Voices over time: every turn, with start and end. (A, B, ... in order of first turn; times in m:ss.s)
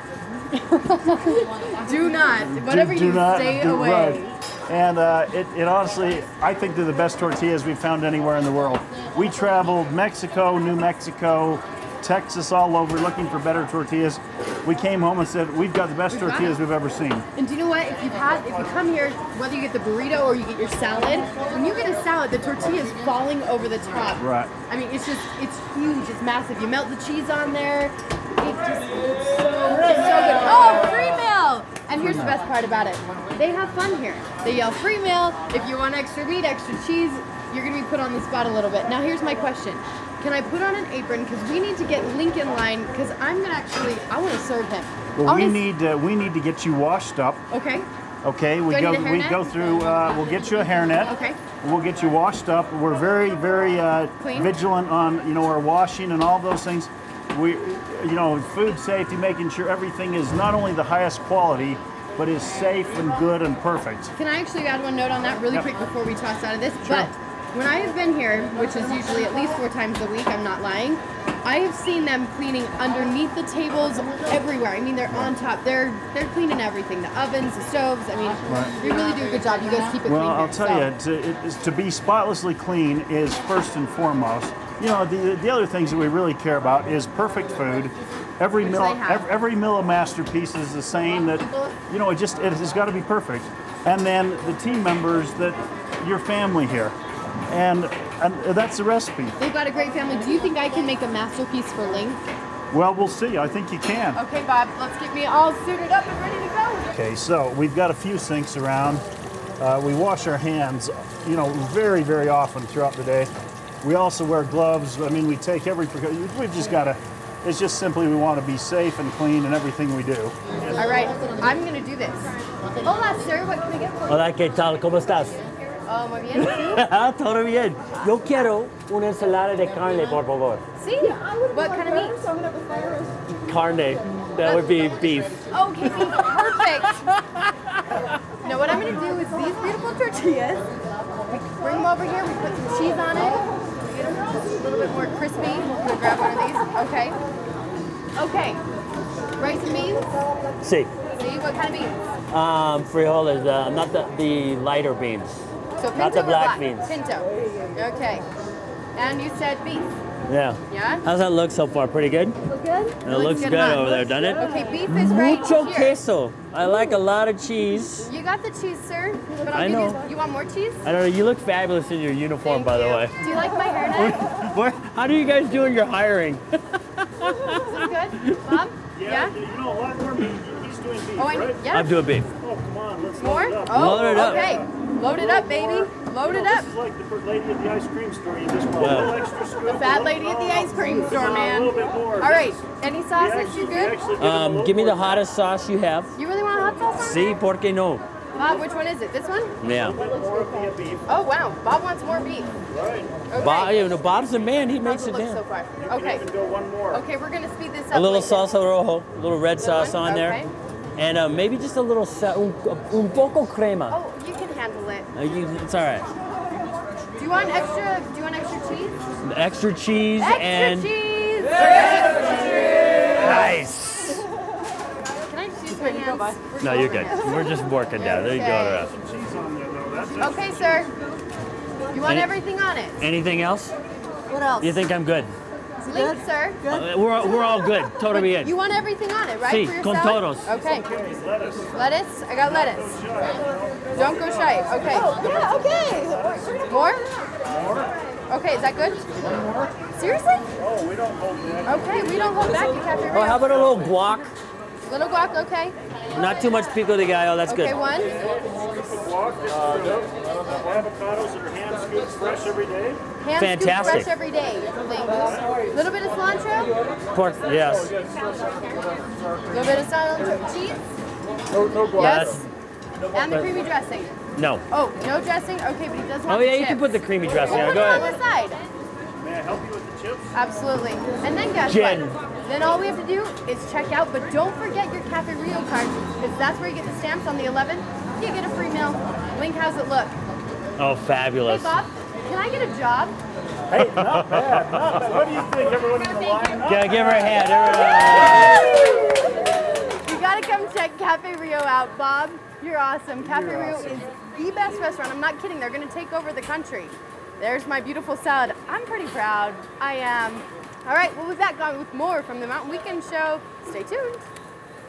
0:00.5-0:04.4 A
0:02.5-0:17.3 B
0:16.1-0:16.6 A
0:17.4-0:45.6 A
0:24.2-0:24.5 B
0:32.0-0:32.4 B
0:45.2-0:47.4 B
0:47.5-0:47.9 A
0:48.2-1:04.1 B
0:48.7-0:50.0 A
0:51.0-0:51.4 A
0:54.2-0:54.5 A
1:04.2-1:20.9 A
1:06.9-1:07.1 B
1:18.5-1:18.7 B
1:20.0-1:37.0 B
1:28.6-1:29.3 A
1:37.5-1:39.4 B
1:39.4-1:42.2 A
1:42.7-1:44.2 B
1:44.2-1:46.9 A
1:46.9-1:49.0 B
1:49.6-1:53.3 B
1:53.8-2:00.3 B
2:00.7-2:02.3 A
2:02.8-2:04.2 A
2:04.1-2:05.4 C
2:05.9-2:06.8 A
2:06.4-2:10.6 C
2:10.8-2:12.2 A
2:13.4-2:15.4 C
2:14.4-2:17.1 A
2:18.4-2:20.7 A
2:21.3-2:23.4 A
2:24.0-2:27.2 A
2:28.2-2:28.6 A
2:29.4-2:30.1 A
2:30.6-2:30.9 C
2:31.2-2:32.0 A
2:32.3-2:35.4 C
2:35.8-2:38.3 A
2:36.0-2:37.0 C
2:39.0-2:39.9 A
2:40.3-2:42.4 C
2:40.7-2:41.0 A
2:43.0-2:48.1 C
2:43.0-2:46.0 A
2:48.0-2:50.8 A
2:49.5-2:50.0 C
2:50.8-2:53.2 C
2:52.4-2:54.3 A
2:53.9-2:58.4 C
2:57.5-2:59.4 A
2:58.9-3:01.7 B
3:01.2-3:02.0 A
3:01.7-3:02.3 C
3:02.4-3:15.3 B
3:03.2-3:06.7 A
3:03.7-3:04.5 C
3:08.8-3:09.1 C
3:09.7-3:14.0 A
3:14.2-3:16.1 C
3:16.2-3:17.4 A
3:17.0-3:18.0 C
3:18.3-3:19.6 A
3:19.6-3:20.0 C
3:19.7-3:21.1 B
3:21.1-3:22.5 A
3:22.7-3:23.2 B
3:23.3-3:26.2 A
3:23.4-3:25.4 C
3:25.8-3:27.0 B
3:26.9-3:28.5 A
3:27.9-3:30.4 C
3:29.6-3:30.5 A
3:31.0-3:34.0 C
3:33.9-3:35.1 A
3:35.2-3:36.1 C
3:37.2-3:39.0 A
3:39.2-3:40.9 C
3:40.2-3:43.2 A
3:43.1-3:44.3 C
3:45.2-3:47.5 A
3:46.6-3:48.9 C
3:48.1-3:48.9 A
3:48.3-3:50.9 B
3:50.2-3:50.9 A
3:51.9-3:53.0 A
3:52.0-3:52.3 C
3:53.0-3:53.7 C
3:54.3-3:54.8 A
3:54.6-3:55.3 C
3:55.8-3:56.7 A
3:56.7-3:58.5 C
3:58.1-4:00.9 A
3:59.4-4:00.5 C
4:00.7-4:01.8 B
4:01.7-4:02.9 A
4:02.4-4:06.6 B
4:04.0-4:05.3 A
4:06.6-4:07.1 A
4:07.5-4:08.0 B
4:08.3-4:09.1 A
4:09.2-4:09.7 B
4:09.9-4:10.5 A
4:10.6-4:12.9 B
4:11.7-4:13.5 A
4:13.1-4:14.3 C
4:13.6-4:13.8 B
4:14.9-4:15.8 A
4:16.1-4:17.8 C
4:17.5-4:18.1 A
4:18.1-4:23.0 B
4:23.2-4:26.7 A
4:23.4-4:24.1 C
4:27.1-4:28.0 C
4:29.5-4:30.8 A
4:31.5-4:32.4 B
4:32.0-4:32.4 A
4:32.0-4:32.5 C
4:33.1-4:34.1 A
4:34.4-4:34.6 C
4:34.7-4:36.9 A
4:36.3-4:38.1 C
4:37.4-4:38.6 A
4:39.2-4:40.3 B
4:40.3-4:50.2 A
4:41.7-4:42.2 C
4:50.8-4:51.8 C
4:51.4-4:53.2 A
4:53.7-4:58.5 B
4:53.8-4:54.6 C
4:56.6-4:58.8 C
4:57.6-5:14.2 A
5:03.2-5:04.1 B